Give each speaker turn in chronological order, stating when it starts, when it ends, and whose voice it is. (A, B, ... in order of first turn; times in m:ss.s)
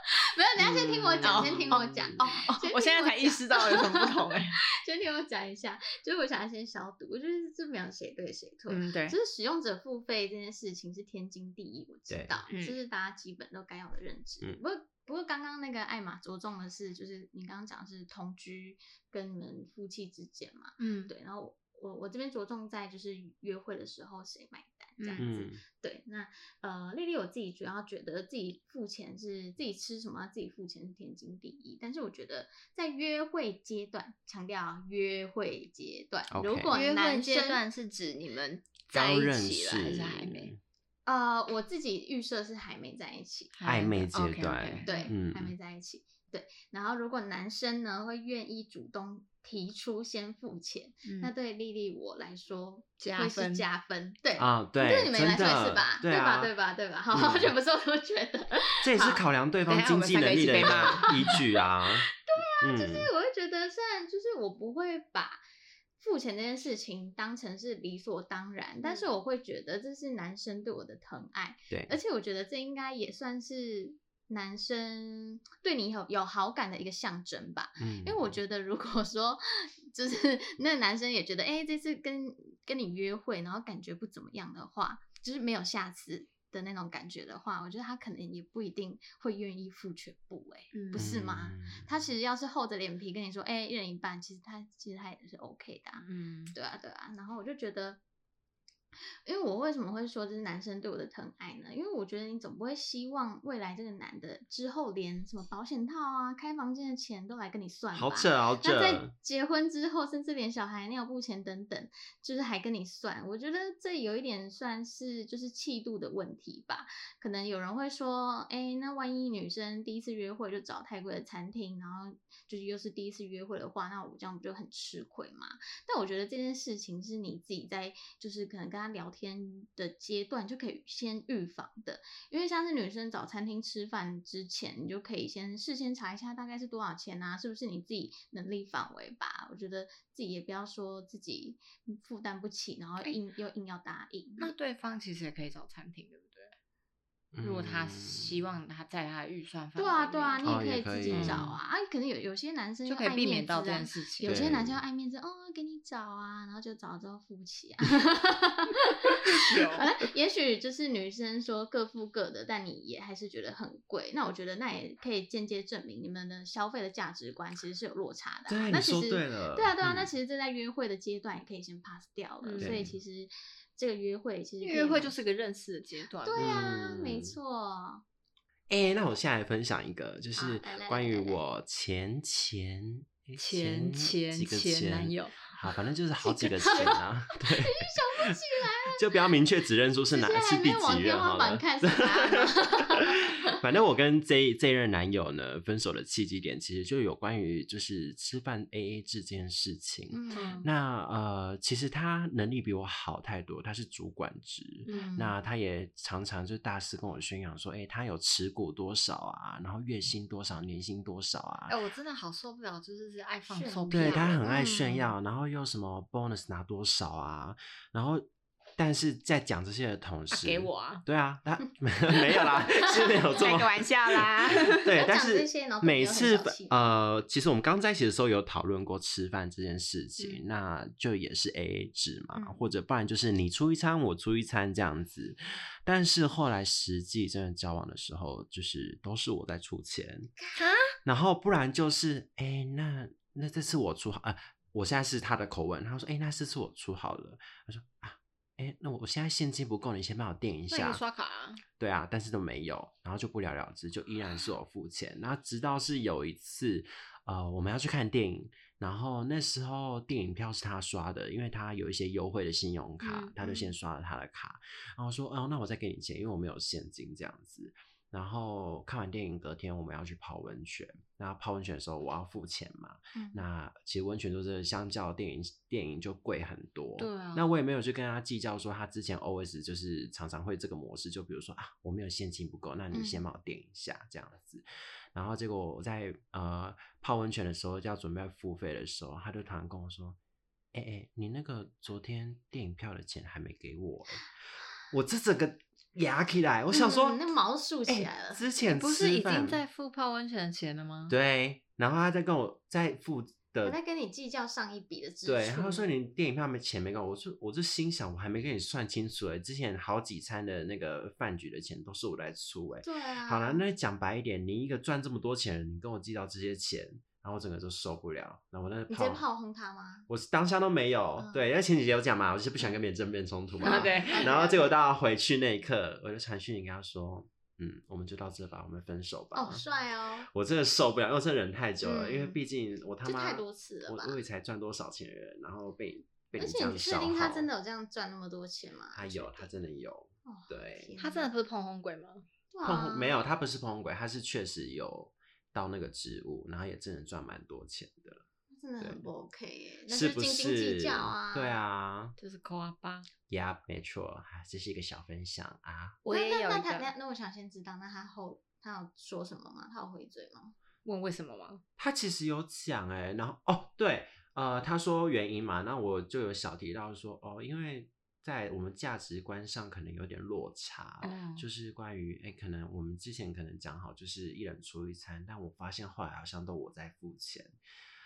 0:00.4-0:37.6 A
0:00.6-0:02.3 B
0:01.2-0:04.6 C
0:08.7-0:09.1 C
0:12.1-0:12.4 B
0:12.5-0:12.8 C
0:20.8-0:21.1 C
0:25.0-0:25.3 C
0:25.2-0:25.6 B
0:36.3-0:36.7 B
0:36.7-0:40.5 C
0:38.9-0:40.6 B
0:41.0-0:43.5 A
0:43.6-0:45.1 C
0:43.6-0:45.5 B
0:44.8-0:59.2 A
0:51.0-0:51.3 C
0:53.0-0:53.6 C
0:54.4-0:56.5 B
0:57.1-0:57.5 B
0:58.8-1:02.1 B
0:59.7-1:01.2 C
1:00.6-1:01.4 A
1:02.0-1:05.4 A
1:02.6-1:03.1 B
1:06.0-1:38.0 A
1:11.7-1:12.0 B
1:17.8-1:18.4 B
1:30.7-1:31.1 C
1:30.9-1:31.9 B
1:36.0-1:36.5 C
1:39.2-2:24.5 A
1:47.9-1:49.1 B
2:24.4-2:26.5 C
2:27.3-2:28.4 B
2:27.4-2:30.5 C
2:29.8-2:55.2 A
2:30.4-2:31.5 B
2:31.1-2:31.5 C
2:32.9-2:34.4 C
2:34.2-2:34.8 B
2:39.2-2:39.9 C
2:48.5-2:50.1 B
2:52.4-2:52.8 C
2:52.6-2:52.9 B
2:54.6-2:56.6 C
2:56.2-2:58.0 A
2:56.4-2:57.3 B
2:58.7-3:31.8 B
3:00.4-3:01.4 A
3:03.4-3:05.5 C
3:06.2-3:09.0 A
3:10.1-3:13.2 A
3:20.1-3:20.6 A
3:20.3-3:20.7 C
3:24.8-3:25.3 C
3:24.9-3:25.2 A
3:31.7-3:34.4 C
3:33.5-3:35.1 A
3:33.9-4:00.3 B
3:40.3-3:41.0 C
3:43.3-3:44.9 C
3:44.9-3:46.7 A
3:52.3-3:52.6 A
4:00.6-4:00.9 C
4:01.0-4:11.0 B
4:10.7-4:11.6 C
4:11.8-4:50.2 B
4:23.0-4:23.3 C
4:23.4-4:23.7 A
4:33.1-4:33.4 A
4:37.0-4:37.5 C
4:42.9-4:43.2 A
4:50.7-4:54.3 B
4:54.9-4:57.3 B
4:56.7-4:58.4 A
4:57.9-4:59.6 B
4:58.7-5:01.1 C
5:01.1-5:03.8 B
5:03.6-5:05.9 A
5:05.2-5:19.2 B
5:12.8-5:13.6 A
5:18.9-5:20.1 A
5:20.1-5:29.6 B
5:21.2-5:21.4 A
5:23.6-5:24.8 A
5:23.6-5:24.3 C
5:29.3-5:30.3 A
5:30.2-5:37.5 B
5:31.8-5:32.4 A
5:33.0-5:34.2 A
5:36.4-5:39.5 A
5:38.9-5:40.9 B
5:40.2-5:41.3 A
5:41.0-5:42.2 C
5:42.5-5:43.2 A
5:42.6-5:48.2 B
5:48.5-5:51.6 A
5:48.8-5:49.1 B
5:49.9-5:52.2 B
5:52.2-5:53.1 C
5:53.3-5:56.0 B
5:56.0-5:56.9 C
5:56.1-6:00.5 A
6:00.8-6:01.6 C
6:01.8-6:17.6 B
6:11.0-6:11.4 C